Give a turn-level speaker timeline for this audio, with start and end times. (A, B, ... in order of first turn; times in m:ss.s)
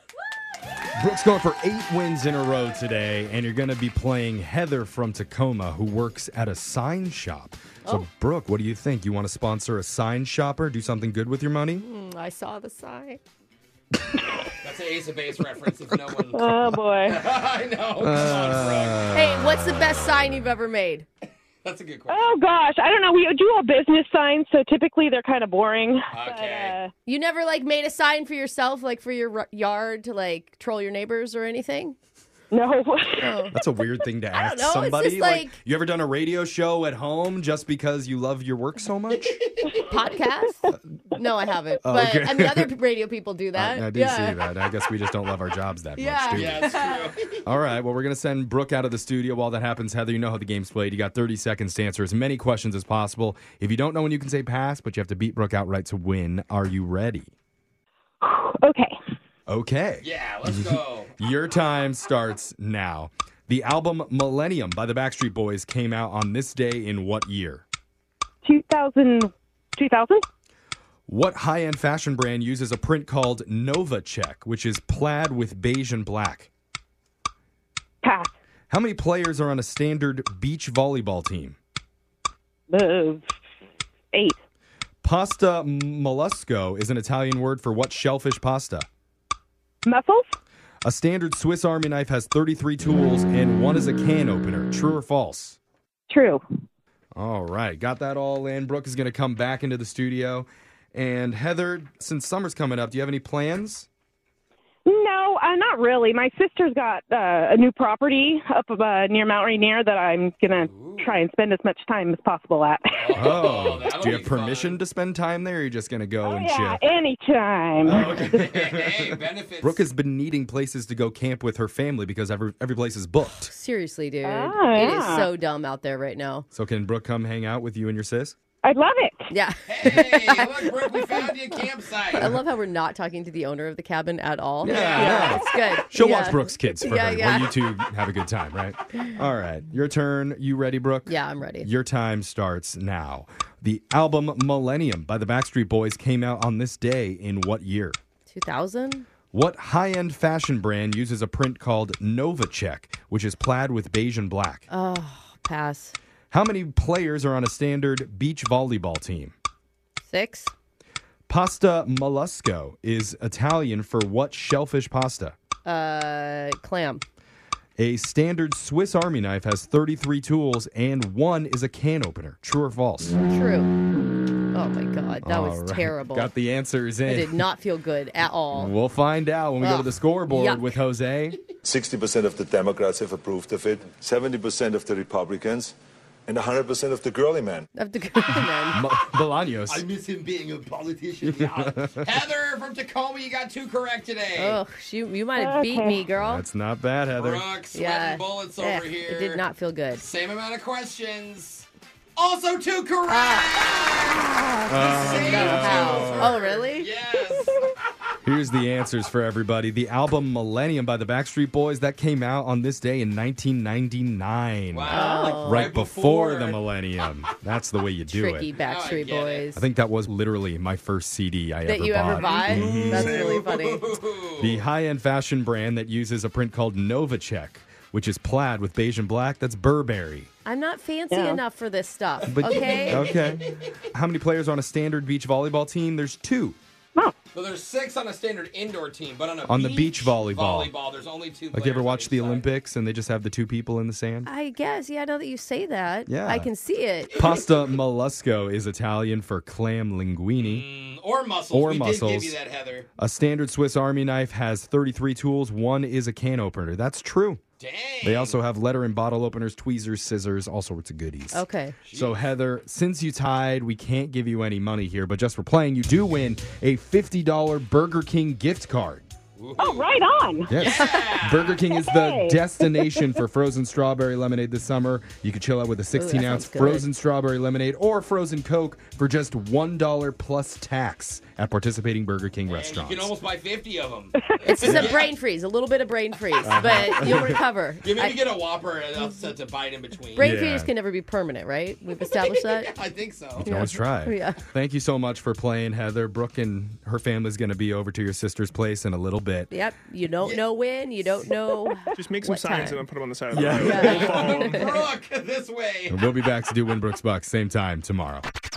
0:01.0-0:11.8 A
0:11.8-0:13.2 B
0:14.6-0:19.1 C
0:16.3-0:17.2 D
0:18.0-0:20.0 A
0:19.1-0:21.1 B
0:21.6-0:22.2 C
0:22.1-0:26.9 D
0:26.1-0:26.8 C
0:27.1-0:32.0 B
0:32.5-0:33.5 D
0:33.2-0:33.5 B
0:33.5-0:39.4 A
0:34.3-0:35.6 B
0:39.3-0:39.8 C
0:39.9-0:44.4 B
0:41.8-0:42.7 A
0:43.5-0:46.8 A
0:46.0-0:47.0 B
0:46.3-0:47.4 C
0:47.4-0:57.3 A
0:58.2-0:59.0 D
0:59.5-1:07.6 A
1:00.0-1:01.1 C
1:08.4-1:10.2 D
1:11.1-1:16.5 A
1:18.0-1:18.3 D
1:18.7-1:21.6 A
1:22.7-1:23.3 D
1:25.0-1:28.9 A
1:29.8-1:30.2 D
1:30.8-1:35.6 A
1:36.1-1:36.4 D
1:37.2-1:43.9 A
1:44.9-1:53.3 D
1:50.7-1:51.2 C
1:53.0-1:54.8 C
1:53.1-1:56.8 A
1:56.2-1:58.6 D
1:57.8-2:03.5 A
1:58.1-1:59.8 C
2:03.4-2:06.5 B
2:04.2-2:05.3 D
2:06.5-2:08.4 A
2:08.6-2:09.3 D
2:09.3-2:11.1 B
2:09.7-2:12.3 C
2:12.2-2:17.6 B
2:14.6-2:15.4 C
2:14.6-2:28.0 A
2:21.1-2:21.7 B
2:28.3-2:29.1 B
2:29.3-2:34.7 A
2:34.7-2:36.0 B
2:36.3-2:39.3 A
2:40.0-2:40.5 B
2:41.3-2:45.4 A
2:45.6-2:47.0 B
2:47.8-2:53.2 A
2:53.3-2:53.7 B
2:54.5-2:56.3 B
2:55.2-2:57.4 A
2:57.1-2:58.7 B
2:58.5-3:01.4 A
2:59.6-3:00.8 B
3:01.6-3:05.8 E
3:06.3-3:07.7 E
3:07.8-3:08.8 B
3:08.7-3:09.8 A
3:09.7-3:14.6 C
3:11.2-3:12.1 A
3:14.4-3:16.4 B
3:15.4-3:16.0 D
3:16.2-3:17.5 A
3:17.1-3:19.4 C
3:17.7-3:20.1 B
3:20.0-3:27.6 C
3:23.1-3:26.9 B
3:24.7-3:26.4 A
3:28.2-3:38.5 A
3:34.7-3:36.6 C
3:34.9-3:35.7 B
3:38.1-3:39.6 B
3:38.6-3:39.5 C
3:39.5-3:43.3 A
3:41.7-3:43.9 B
3:42.1-3:44.6 C
3:44.4-3:50.3 A
3:50.4-3:53.1 B
3:51.1-3:51.4 D
3:52.3-3:56.6 A
3:52.4-3:53.3 C
3:57.3-4:02.5 C
3:59.5-4:00.7 A
4:01.5-4:04.3 A
4:04.3-4:07.3 B
4:06.1-4:06.5 A
4:07.2-4:10.7 A
4:10.4-4:12.9 C
4:11.5-4:12.4 A
4:13.0-4:17.4 A
4:17.6-4:18.4 C
4:18.0-4:29.1 A
4:21.3-4:21.8 B
4:21.9-4:22.2 C
4:29.4-4:29.9 C
4:29.6-4:30.6 D
4:30.5-4:43.1 A
4:30.6-4:31.6 C
4:31.7-4:33.1 D
4:36.0-4:36.9 B
4:42.5-4:45.1 C
4:44.4-4:48.2 B
4:44.6-4:45.0 A
4:46.4-4:47.2 C
4:46.4-4:47.4 A
4:47.8-4:50.3 C
4:50.2-4:50.7 A
4:50.2-4:52.7 B
4:52.1-4:53.5 C
4:53.4-4:59.5 A
4:53.4-4:54.4 B
4:59.5-5:02.8 B
5:01.9-5:04.7 F
5:03.3-5:04.2 A
5:03.5-5:04.7 B
5:03.7-5:06.1 C
5:05.9-5:08.3 A